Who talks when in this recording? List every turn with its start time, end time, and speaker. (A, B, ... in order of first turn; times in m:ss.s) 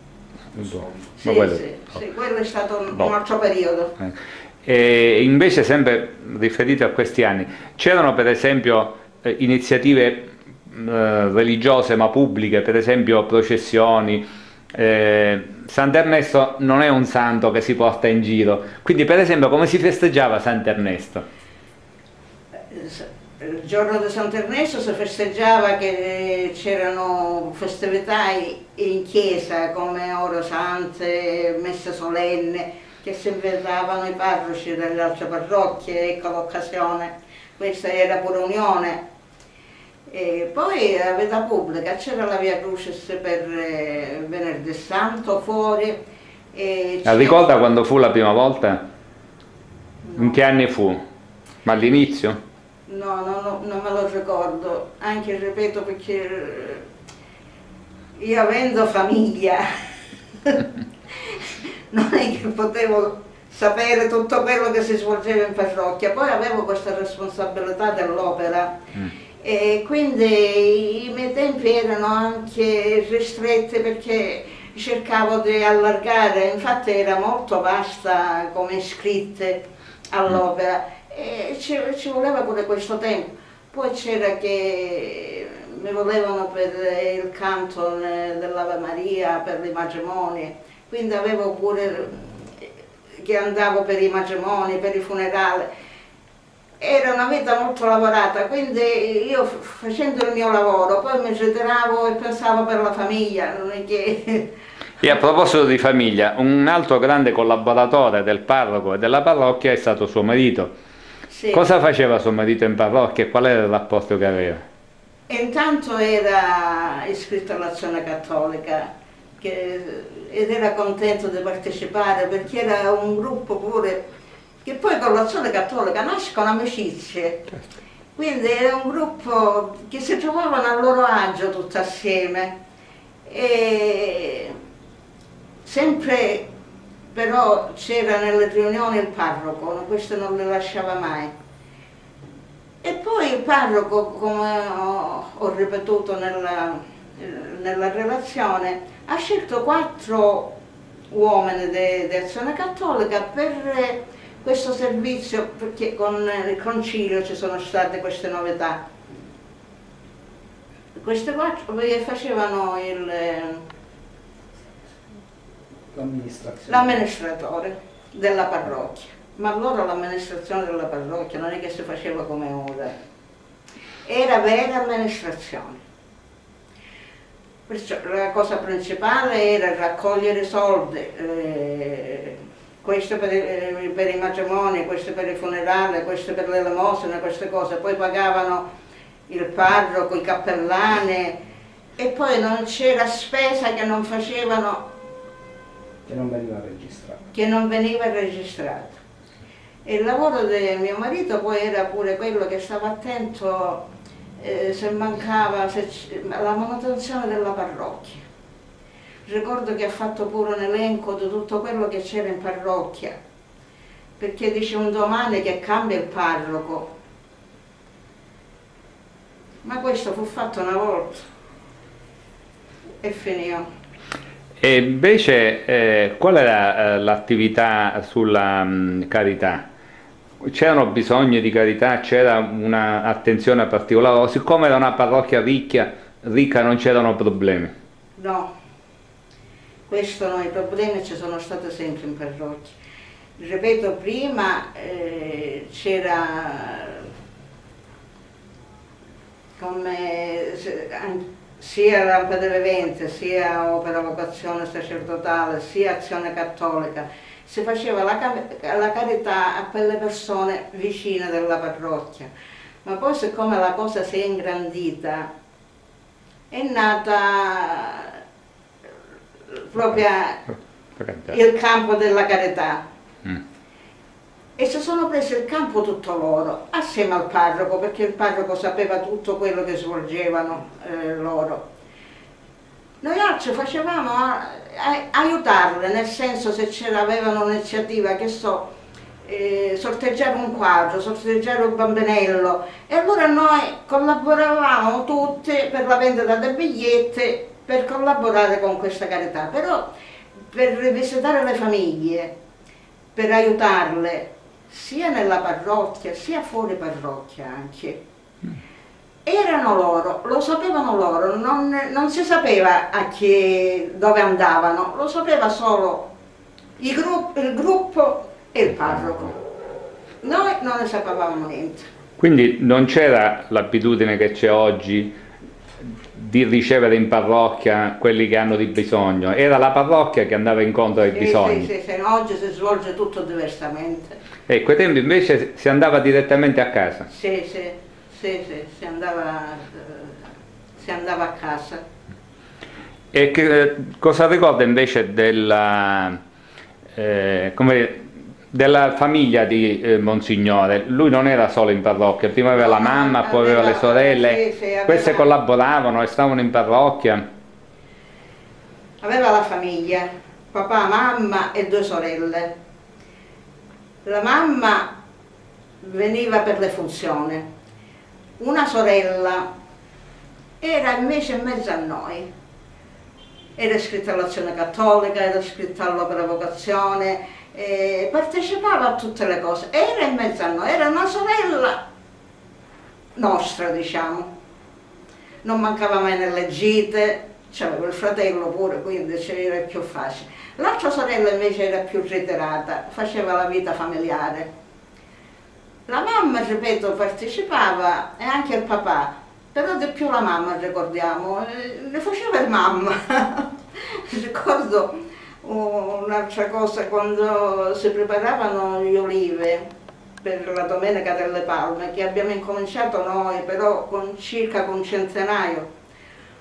0:00.5-0:01.6 A
0:01.2-0:03.9 B
0:04.0-0:21.3 A
0:22.7-0:39.0 B
0:40.1-0:46.0 B
0:46.5-0:47.5 B
0:47.0-0:48.9 A
0:50.1-0:50.4 B
0:50.2-0:51.0 A
0:51.6-0:52.4 A
0:52.9-0:56.8 B
0:58.2-0:59.7 B
1:01.2-1:08.8 B
1:09.4-1:19.6 B
1:20.1-1:32.7 B
1:33.2-1:35.7 B
1:36.8-1:44.5 B
1:45.0-1:50.7 A
1:51.3-1:51.6 B
1:51.5-1:54.7 A
1:55.3-2:04.0 B
2:04.6-2:07.5 B
2:08.2-2:12.6 B
2:13.2-2:14.6 B
2:15.6-2:16.5 B
2:17.1-2:21.3 B
2:22.8-2:30.5 B
2:31.1-2:38.8 B
2:41.0-2:43.6 B
2:45.9-2:47.0 C
2:46.7-2:53.0 B
2:54.1-2:55.8 B
2:57.7-3:08.6 B
3:09.3-3:11.4 B
3:12.0-3:14.8 B
3:16.1-3:17.2 C
3:17.3-3:19.0 B
3:19.8-3:23.9 B
3:24.4-3:28.2 B
3:29.3-3:33.2 B
3:34.2-3:36.9 B
3:39.6-3:41.3 B
3:43.0-3:43.7 B
3:44.6-3:49.7 A
3:50.4-3:57.7 A
3:58.2-3:58.5 B
3:59.9-4:02.8 B
4:03.4-4:07.0 B
4:09.6-4:22.3 B
4:22.8-4:25.3 B
4:26.5-4:28.2 B
4:29.5-4:30.5 B
4:31.0-4:31.3 A
4:31.2-4:32.8 B
4:34.6-4:41.6 B
4:43.0-4:48.7 B
4:49.2-4:59.9 B
5:00.5-5:02.3 B
5:03.2-5:08.0 B
5:09.3-5:16.1 B
5:16.8-5:19.4 B
5:20.2-5:21.9 B
5:22.2-5:25.2 A
5:25.8-5:31.7 A
5:31.1-5:34.2 B
5:34.5-5:37.1 A
5:37.1-5:40.2 B
5:40.8-5:41.8 B
5:43.1-5:46.2 A
5:47.0-5:57.2 A
5:52.5-5:55.3 B
5:59.0-6:02.5 B
6:04.0-6:04.9 B
6:05.8-6:07.5 B
6:08.4-6:09.5 B
6:10.6-6:12.3 B
6:13.6-6:21.8 B
6:23.2-6:24.3 B
6:25.4-6:34.5 B
6:35.9-6:49.6 B
6:50.2-6:55.7 B